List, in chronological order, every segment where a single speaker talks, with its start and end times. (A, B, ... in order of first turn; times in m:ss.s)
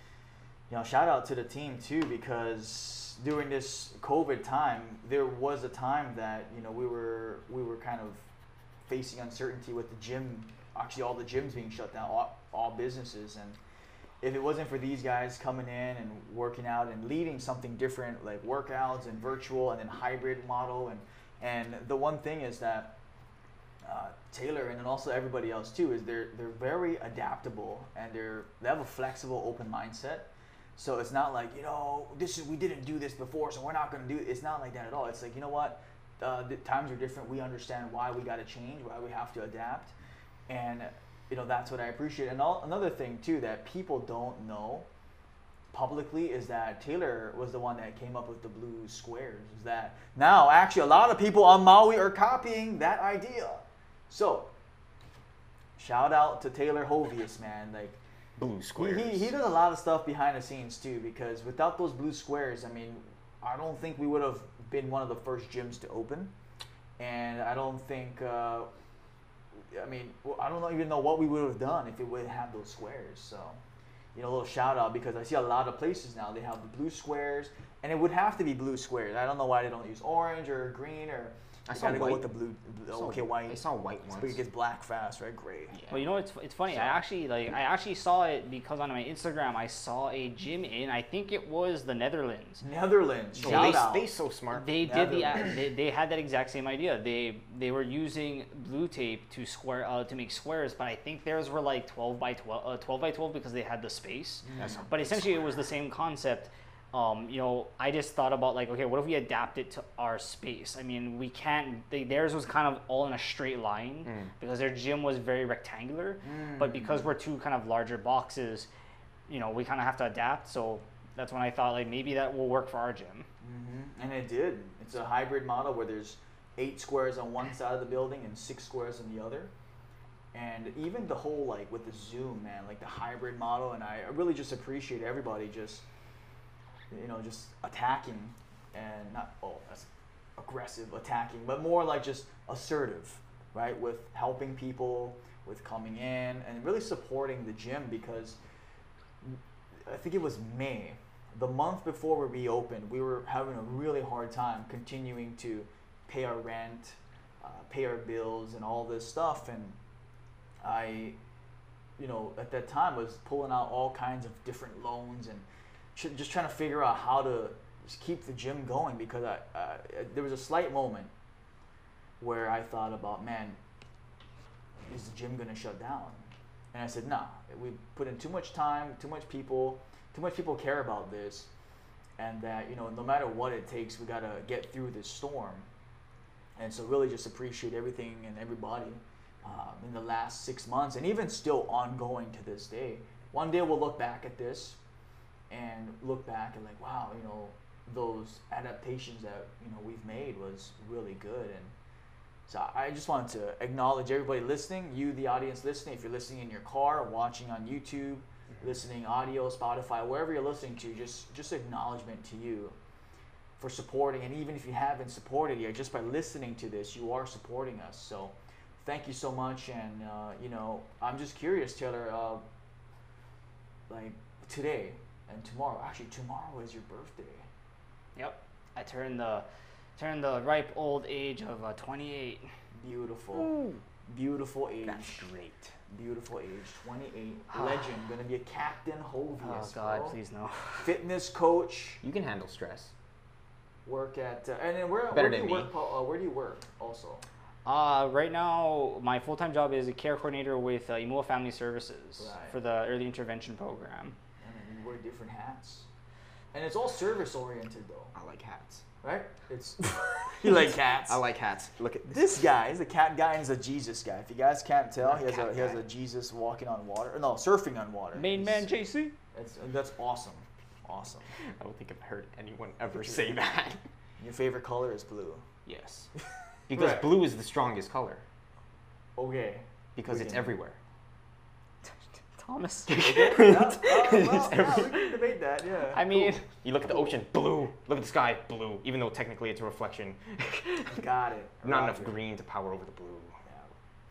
0:00.7-0:08.3 A
0:08.9-0:13.6 A
0:14.2-0:23.0 A
0:23.8-0:39.9 A
0:40.5-0:44.9 A
0:45.7-0:54.5 A
0:55.8-0:58.0 A
0:58.4-0:59.3 B
0:58.8-1:06.3 A
1:07.0-1:08.7 A
1:09.6-1:13.6 A
1:14.1-1:23.6 A
1:21.7-1:22.2 B
1:22.9-1:24.4 B
1:24.1-1:25.8 A
1:25.7-1:26.1 B
1:25.9-1:32.6 C
1:26.7-1:27.0 B
1:32.6-1:34.1 A
1:33.4-1:34.7 B
1:33.4-1:33.8 C
1:34.5-1:58.7 C
1:34.8-1:35.5 A
1:44.4-1:44.9 A
1:44.6-1:45.4 B
1:54.0-1:54.3 B
1:56.2-1:57.1 A
1:59.3-2:03.3 C
2:03.4-2:09.5 A
2:10.3-2:15.8 A
2:16.9-2:28.4 A
2:29.2-2:39.8 A
2:40.6-2:41.2 A
2:42.0-2:51.1 A
2:52.2-2:53.6 A
2:54.9-3:01.5 A
3:02.2-3:05.7 A
3:06.6-3:14.8 A
3:15.5-3:21.7 A
3:22.5-3:32.8 A
3:33.6-3:42.4 A
3:43.9-3:47.5 A
3:48.2-3:49.4 C
3:50.0-3:52.5 C
3:52.7-3:53.5 A
3:53.4-3:53.8 B
3:54.1-3:55.3 A
3:54.8-3:55.7 B
3:55.9-4:00.2 A
3:57.5-3:57.9 C
3:59.4-4:00.9 C
4:00.8-4:02.0 A
4:02.0-4:02.9 B
4:03.8-4:07.2 A
4:05.1-4:05.7 B
4:07.6-4:14.2 C
4:12.2-4:12.6 A
4:14.4-4:15.9 A
4:16.5-4:18.1 A
4:18.1-4:18.8 B
4:19.0-4:21.2 A
4:20.4-4:22.4 B
4:22.1-4:28.7 A
4:25.0-4:25.8 B
4:28.1-4:29.1 C
4:29.3-4:31.3 A
4:31.3-4:33.8 B
4:32.9-4:33.4 A
4:34.2-4:35.4 A
4:35.6-4:36.1 B
4:36.7-4:38.2 B
4:36.7-4:37.1 A
4:39.2-4:40.5 A
4:40.0-4:40.8 B
4:42.3-4:43.0 C
4:42.9-4:45.2 B
4:43.0-4:47.2 A
4:45.9-4:46.4 C
4:46.5-4:51.0 B
4:50.9-4:52.2 A
4:51.6-4:53.4 B
4:53.4-4:53.7 A